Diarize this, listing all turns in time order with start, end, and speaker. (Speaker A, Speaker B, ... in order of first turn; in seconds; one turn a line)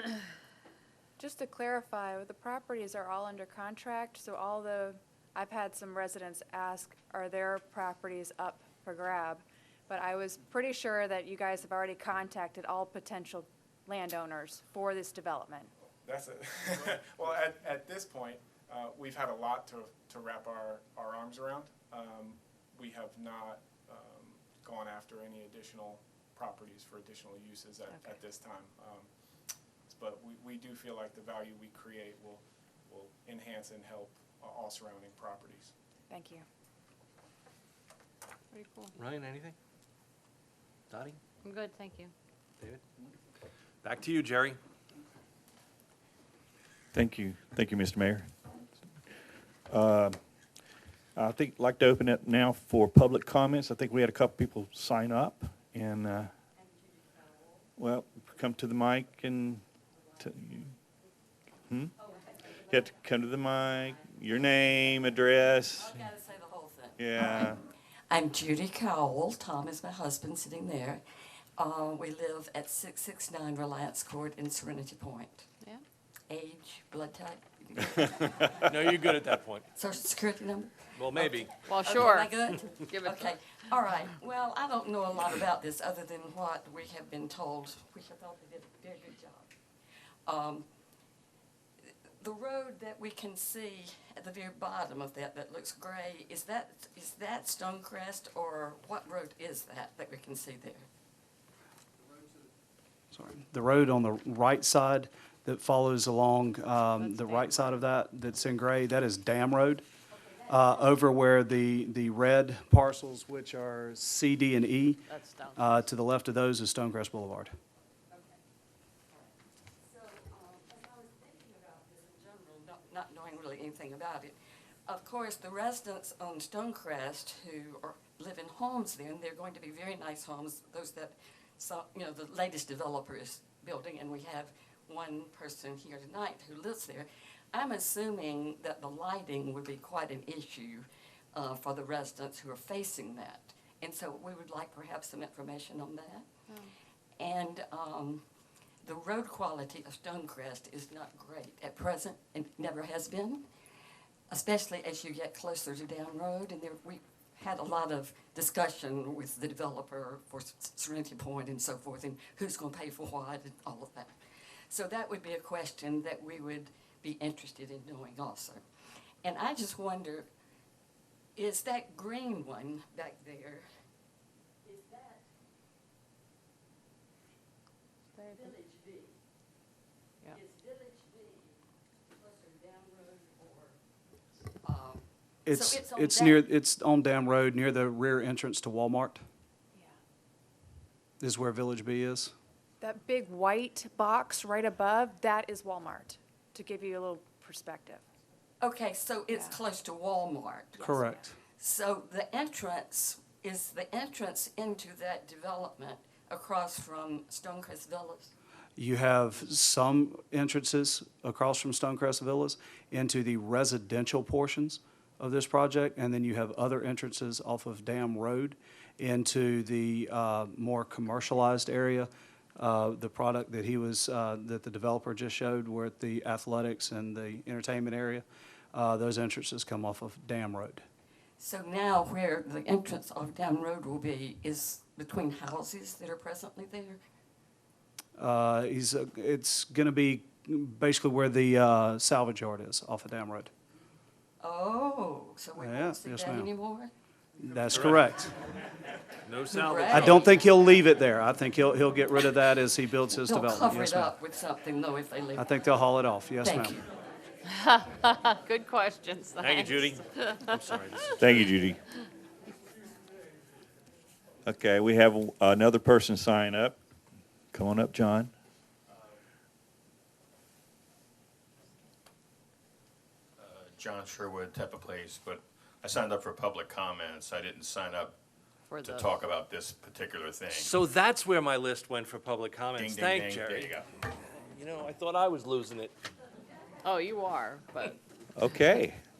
Speaker A: 1.2-15.7
Speaker B: 16.0-29.1
Speaker B: 29.9-35.7
Speaker A: 36.1-36.4
Speaker C: 38.5-38.9
Speaker D: 39.0-39.5
Speaker D: 40.9-41.2
Speaker C: 41.4-42.1
Speaker D: 43.8-44.6
Speaker E: 46.9-48.3
Speaker E: 49.7-50.2
Speaker E: 51.1-56.3
Speaker F: 56.6-57.6
Speaker E: 57.8-59.6
Speaker E: 60.2-60.7
Speaker F: 62.0-62.9
Speaker E: 62.7-65.9
Speaker F: 63.7-64.1
Speaker F: 65.7-71.0
Speaker E: 67.0-67.6
Speaker F: 71.6-75.5
Speaker F: 76.3-79.0
Speaker D: 78.6-79.6
Speaker F: 79.7-89.5
Speaker D: 81.0-81.6
Speaker C: 81.7-82.3
Speaker C: 82.9-83.4
Speaker F: 90.2-90.7
Speaker F: 92.2-100.9
Speaker G: 103.1-109.8
Speaker C: 107.0-107.7
Speaker G: 110.5-117.5
Speaker C: 115.1-115.7
Speaker F: 118.1-118.4
Speaker F: 119.8-146.3
Speaker F: 147.2-148.2
Speaker F: 148.8-153.4
Speaker F: 154.3-164.1
Speaker F: 164.7-168.6
Speaker F: 169.2-170.3
Speaker F: 171.3-173.6
Speaker F: 174.6-175.2
Speaker C: 178.2-178.5
Speaker F: 178.3-179.1
Speaker F: 180.3-183.8
Speaker F: 184.6-186.4
Speaker G: 185.4-189.2
Speaker G: 191.2-192.3
Speaker A: 192.8-198.0
Speaker F: 198.6-201.0
Speaker G: 200.8-201.3
Speaker F: 201.6-208.3
Speaker G: 208.8-230.8
Speaker F: 231.4-237.0
Speaker G: 238.2-243.5
Speaker F: 244.4-246.9
Speaker G: 245.6-246.5
Speaker G: 247.4-248.3
Speaker D: 247.7-248.0
Speaker D: 249.2-250.3
Speaker F: 249.5-250.3
Speaker G: 249.9-254.1
Speaker F: 253.1-255.5
Speaker G: 255.3-256.8
Speaker F: 256.4-256.8
Speaker C: 257.5-260.5
Speaker D: 259.4-261.4
Speaker E: 261.2-261.8
Speaker E: 264.4-266.8
Speaker E: 267.5-268.3
Speaker H: 273.4-278.1
Speaker C: 278.7-279.1
Speaker H: 278.8-280.7
Speaker D: 280.5-285.9
Speaker H: 282.7-283.9
Speaker C: 286.8-288.0
Speaker E: 288.4-289.0